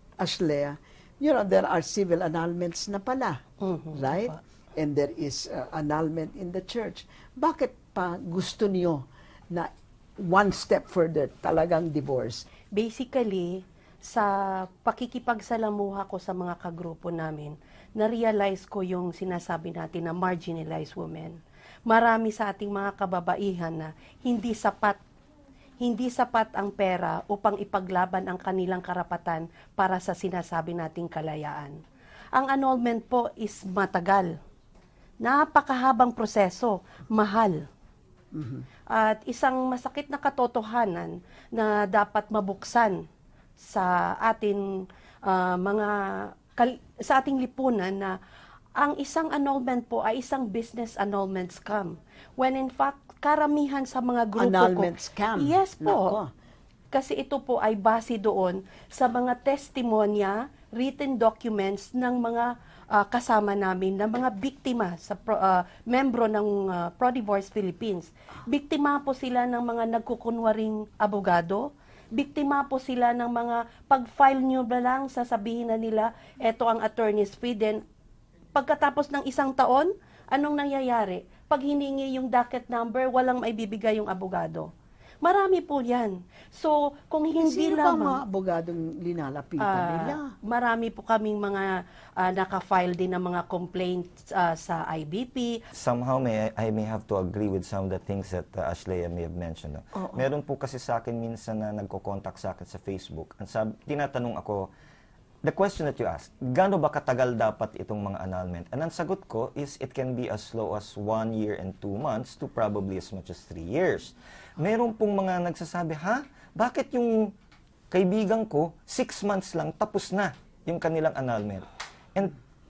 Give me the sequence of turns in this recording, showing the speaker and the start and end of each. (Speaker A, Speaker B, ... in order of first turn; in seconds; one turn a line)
Speaker A: 0.2-3.4
Speaker B: 3.6-4.0
Speaker A: 3.9-12.4
Speaker B: 12.7-21.4
Speaker B: 21.9-25.0
Speaker B: 25.8-31.7
Speaker B: 32.3-34.3
Speaker B: 35.2-37.6
Speaker A: 38.4-38.6
Speaker B: 38.9-43.0
Speaker B: 43.6-44.6
Speaker B: 45.3-48.1
Speaker B: 48.8-56.1
Speaker A: 54.4-56.3
Speaker B: 56.9-77.8
Speaker B: 78.5-84.7
Speaker B: 85.2-88.2
Speaker A: 87.4-90.2
Speaker B: 89.6-95.6
Speaker C: 95.7-104.7
Speaker C: 105.4-117.3
Speaker C: 117.9-122.3